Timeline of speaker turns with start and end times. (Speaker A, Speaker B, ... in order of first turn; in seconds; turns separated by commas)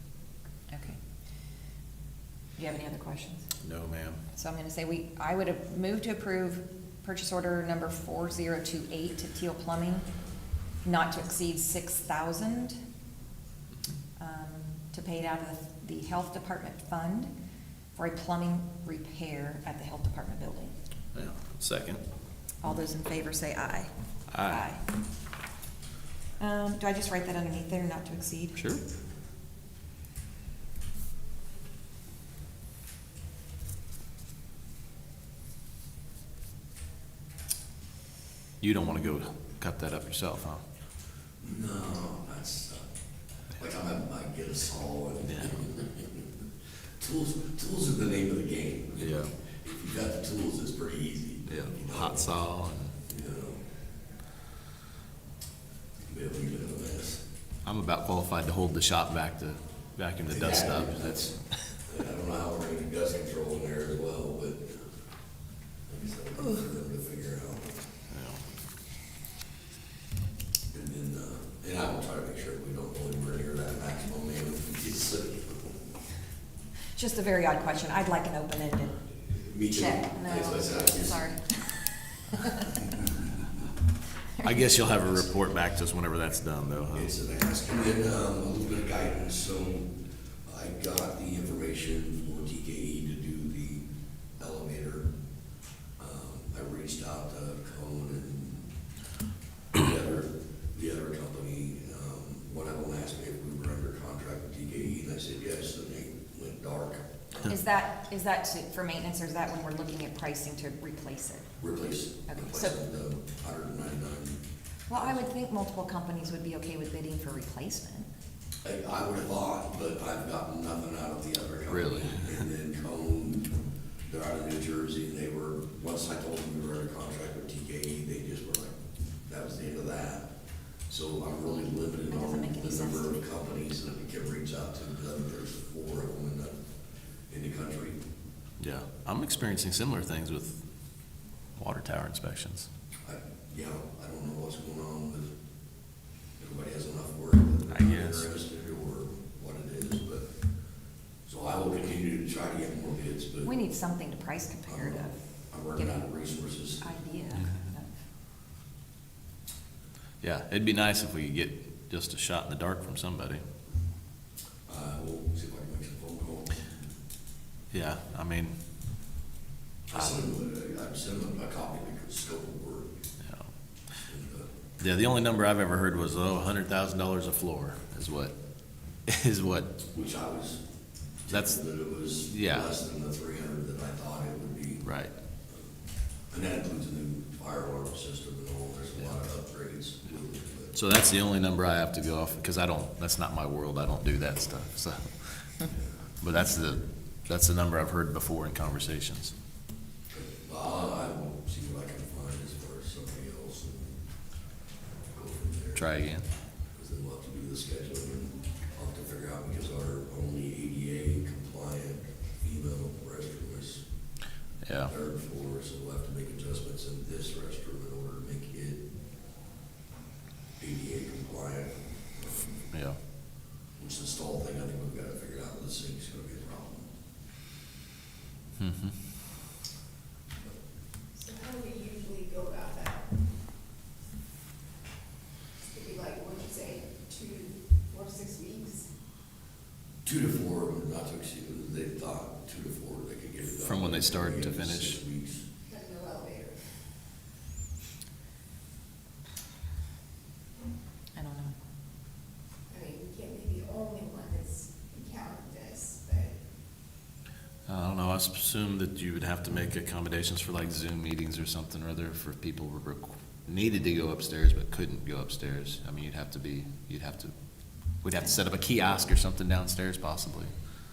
Speaker A: 0.7-1.0, Speaker A: 2.6-3.5, Speaker B: 3.6-4.2, Speaker A: 4.3-10.1, Speaker A: 10.8-12.8, Speaker A: 14.2-17.3, Speaker A: 17.9-20.7, Speaker B: 21.1-22.0, Speaker A: 22.6-23.9, Speaker B: 24.3-24.6, Speaker A: 24.4-24.8, Speaker A: 26.4-28.6, Speaker B: 28.6-28.8, Speaker B: 38.6-40.6, Speaker C: 41.4-42.9, Speaker C: 43.6-46.3, Speaker B: 45.2-45.6, Speaker C: 47.0-52.3, Speaker B: 49.0-49.3, Speaker B: 51.5-53.0, Speaker C: 53.1-53.6, Speaker C: 56.0-57.2, Speaker B: 57.6-61.4, Speaker C: 60.3-61.3, Speaker C: 61.8-64.9, Speaker C: 65.9-67.8, Speaker B: 68.1-68.4, Speaker C: 70.7-75.8, Speaker A: 77.0-78.9, Speaker C: 79.3-81.2, Speaker A: 79.7-82.8, Speaker B: 84.4-87.1, Speaker C: 86.9-89.9, Speaker C: 90.5-93.8, Speaker C: 94.4-95.1, Speaker C: 96.0-98.6, Speaker C: 99.7-107.6, Speaker A: 107.4-111.5, Speaker C: 111.6-114.4, Speaker A: 112.3-112.8, Speaker A: 114.9-118.1, Speaker C: 118.6-123.5, Speaker B: 121.7-122.4, Speaker C: 124.1-128.7, Speaker C: 129.2-130.3, Speaker C: 130.9-136.5, Speaker A: 132.1-133.2, Speaker C: 137.3-138.0, Speaker B: 138.6-140.6, Speaker B: 141.6-142.7, Speaker C: 143.0-145.3, Speaker C: 146.4-150.3, Speaker B: 147.7-148.3, Speaker C: 151.2-153.5, Speaker A: 153.4-155.1, Speaker C: 154.7-157.0, Speaker A: 155.7-156.1, Speaker A: 156.8-157.9, Speaker B: 160.2-163.4, Speaker C: 164.7-166.9, Speaker B: 167.7-168.5, Speaker C: 169.9-172.9, Speaker B: 169.9-170.2, Speaker B: 173.2-173.5, Speaker C: 174.1-174.5, Speaker B: 174.8-178.3, Speaker B: 179.1-179.8, Speaker C: 179.9-180.6, Speaker C: 181.2-184.8, Speaker B: 181.3-181.6, Speaker B: 182.3-182.7, Speaker B: 184.8-185.1, Speaker C: 186.3-190.8, Speaker B: 190.7-195.7, Speaker B: 196.2-199.3, Speaker C: 200.1-204.0, Speaker C: 205.1-205.9, Speaker B: 205.7-206.3, Speaker C: 206.7-213.8, Speaker B: 214.6-214.9, Speaker C: 214.8-218.8, Speaker C: 220.6-222.7, Speaker B: 222.7-223.0, Speaker C: 223.8-226.9, Speaker B: 228.6-228.9, Speaker D: 231.2-233.1, Speaker D: 235.7-238.9, Speaker C: 240.0-245.4, Speaker B: 243.5-245.0, Speaker D: 245.7-246.7, Speaker A: 251.2-251.5, Speaker D: 252.7-256.4, Speaker B: 257.7-267.3, Speaker B: 268.0-270.5